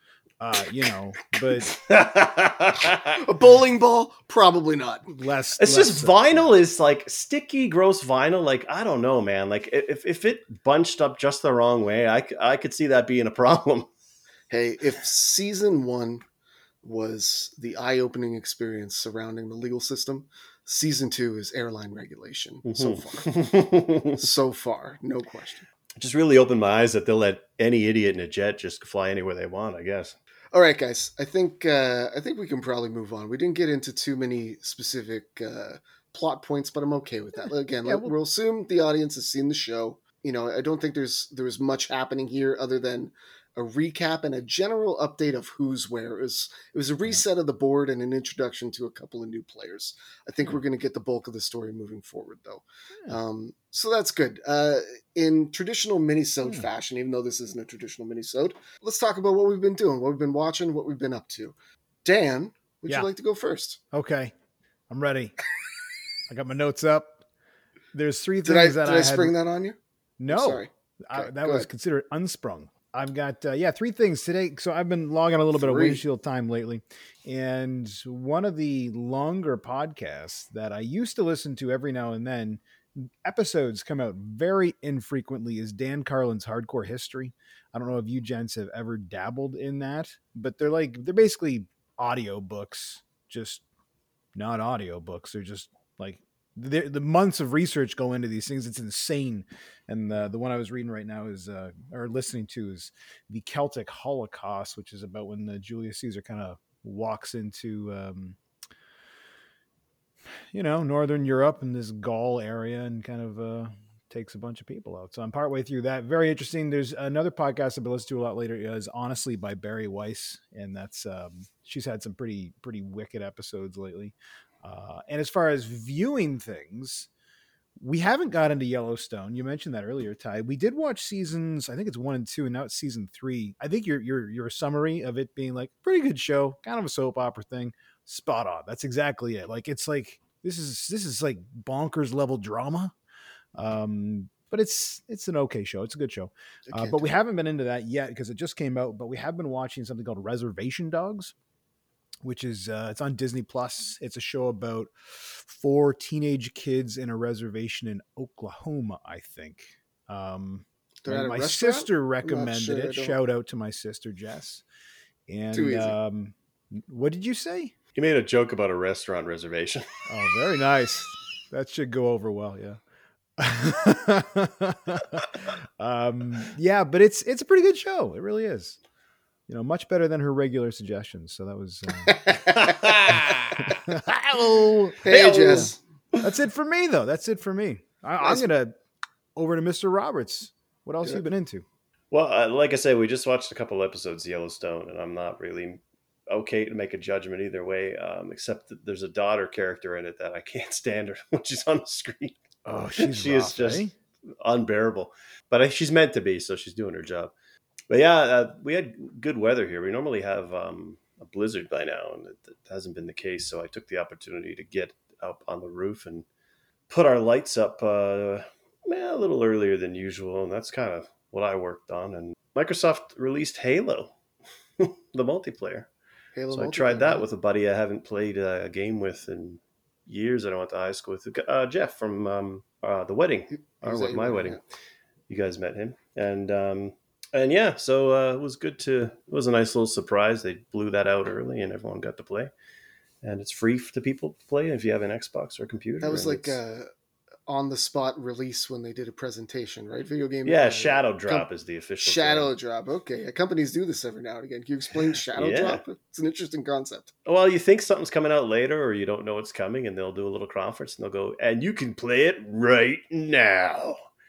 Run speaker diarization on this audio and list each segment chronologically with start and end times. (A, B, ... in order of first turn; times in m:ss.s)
0:00.4-0:01.7 A
0:01.7-0:03.2 B
0:03.2-0:05.1 C
0:05.1-0:06.5 A
0:05.6-0:13.9 B
0:14.5-0:16.2 C
0:16.8-0:23.3 C
0:22.6-0:24.2 B
0:24.2-0:25.7 C
0:26.0-0:30.2 B
0:30.5-1:03.8 C
0:37.9-0:38.1 A
1:03.9-1:04.3 A
1:04.9-1:05.4 A
1:06.3-1:07.2 A
1:07.9-1:09.4 A
1:08.4-1:11.7 C
1:10.2-1:33.6 A
1:15.6-1:16.0 C
1:34.4-1:48.4 A
1:50.5-2:07.1 A
2:07.8-2:22.9 A
2:23.6-2:31.3 A
2:26.7-2:27.1 C
2:32.2-2:44.6 A
2:41.0-2:43.2 C
2:45.3-2:47.7 A
2:45.5-2:46.0 C
2:48.0-2:49.9 B
2:50.1-2:52.8 A
2:53.4-2:55.3 A
2:55.8-2:58.8 A
2:59.5-3:02.3 A
3:02.1-3:02.7 C
3:02.8-3:03.4 B
3:03.1-3:05.0 A
3:05.0-3:05.8 C
3:05.0-3:05.7 B
3:06.2-3:08.7 A
3:09.4-3:11.6 A
3:12.1-3:22.4 B
3:22.7-3:23.9 A
3:23.0-3:23.9 B
3:24.4-3:27.3 B
3:27.9-3:36.3 B
3:36.9-3:44.1 B
3:44.8-3:45.9 B
3:46.4-3:47.3 C
3:46.5-3:54.6 B
3:53.6-3:54.6 C
3:55.3-4:02.5 B
4:03.2-4:06.6 B
4:06.0-4:06.9 C
4:07.5-4:11.5 C
4:10.4-4:12.5 B
4:12.0-4:17.1 C
4:15.4-4:15.8 B
4:17.3-4:24.0 B